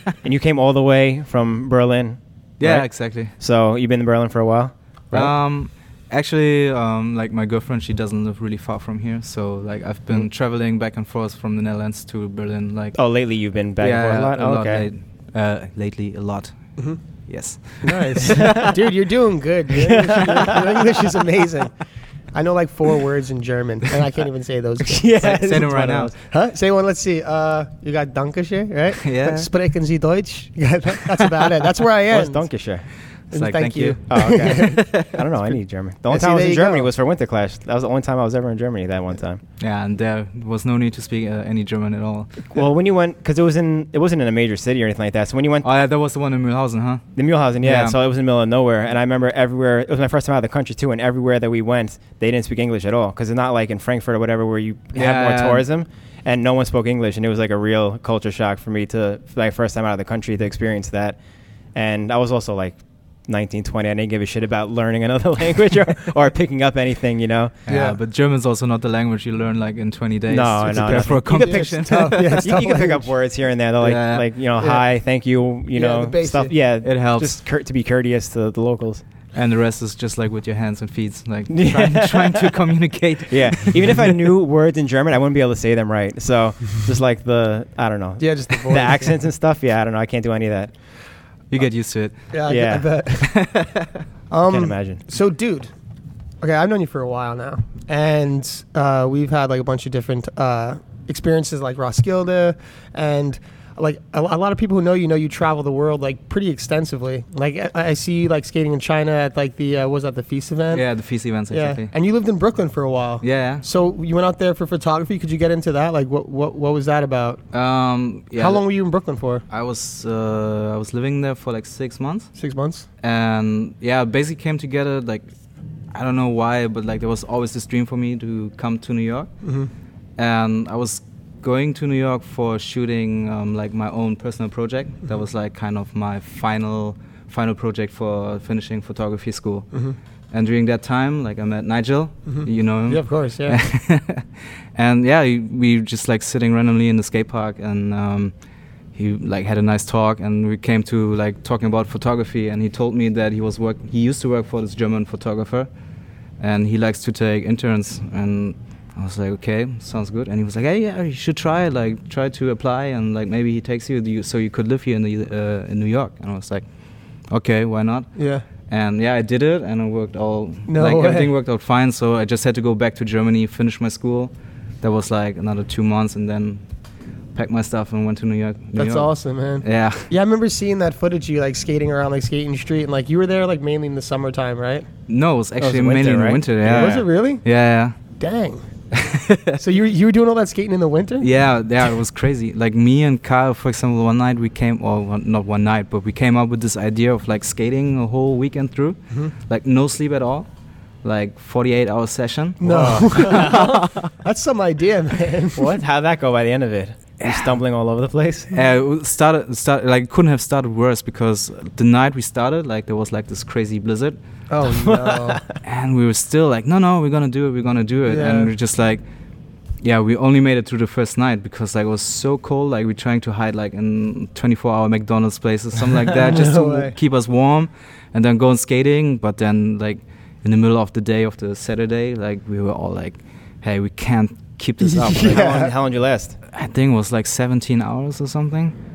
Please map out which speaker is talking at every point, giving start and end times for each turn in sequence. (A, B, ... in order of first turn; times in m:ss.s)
0:00.2-0:05.3 A
0:02.6-0:03.3 B
0:05.1-0:13.0 B
0:12.9-0:14.8 A
0:13.8-0:16.7 B
0:17.3-0:18.4 B
0:17.8-0:21.7 C
0:18.3-0:18.7 A
0:19.7-0:20.6 A
0:22.3-0:25.6 C
0:24.8-0:26.1 A
0:25.2-0:26.1 B
0:26.2-0:32.4 C
0:29.0-0:29.5 B
0:32.1-0:32.8 A
0:33.3-0:35.0 C
0:33.3-0:35.0 B
0:34.1-0:39.4 A
0:36.1-0:36.9 C
0:39.6-0:42.5 B
0:42.5-0:45.7 A
0:45.6-0:47.0 B
0:47.2-1:01.2 A
0:47.6-0:48.0 B
0:54.9-0:55.6 B
1:01.7-1:07.5 A
1:07.7-1:12.4 B
1:07.7-1:08.0 C
1:10.3-1:19.0 A
1:10.9-1:13.1 C
1:13.8-1:14.2 B
1:14.6-1:14.8 C
1:15.7-1:16.5 C
1:16.8-1:17.4 B
1:19.3-1:24.1 B
1:21.5-1:22.6 A
1:23.3-1:30.7 A
1:28.2-1:29.1 C
1:31.5-1:32.2 B
1:32.3-1:33.3 C
1:32.5-1:32.8 A
1:33.2-1:33.9 B
1:34.3-1:35.7 C
1:34.5-1:35.0 A
1:36.4-1:50.8 C
1:50.7-1:51.9 B
1:51.5-1:57.4 C
1:53.2-1:53.6 B
1:57.5-1:58.6 B
1:58.3-1:59.4 C
1:59.5-2:02.3 B
2:02.4-2:02.8 C
2:03.0-2:05.3 B
2:05.9-2:09.3 B
2:09.4-2:09.7 C
2:10.2-2:19.7 B
2:20.3-2:28.3 B
2:22.2-2:23.6 C
2:28.9-2:35.7 B
2:36.4-2:46.6 B
2:47.3-2:48.1 B
2:48.2-2:48.4 C
2:48.7-2:56.6 B
2:50.7-2:51.3 C
2:57.3-3:00.1 B
2:58.8-3:04.9 C
3:05.1-3:07.9 B
3:05.6-3:07.0 A
3:06.6-3:07.4 C
3:08.2-3:08.6 C
3:08.9-3:09.6 B
3:09.6-3:11.3 C
3:11.2-3:20.5 B
3:21.0-3:23.9 B
3:22.6-3:25.8 C
3:22.6-3:23.8 A
3:25.6-3:28.5 A
3:27.2-3:27.5 B
3:28.5-3:34.2 B
3:34.5-3:35.4 C
3:34.6-3:35.6 A
3:35.6-3:39.0 B
3:38.1-3:38.5 C
3:39.8-3:55.5 B
3:46.2-3:46.9 C
3:54.9-3:55.7 C
3:55.2-3:56.4 A
3:56.5-3:58.7 B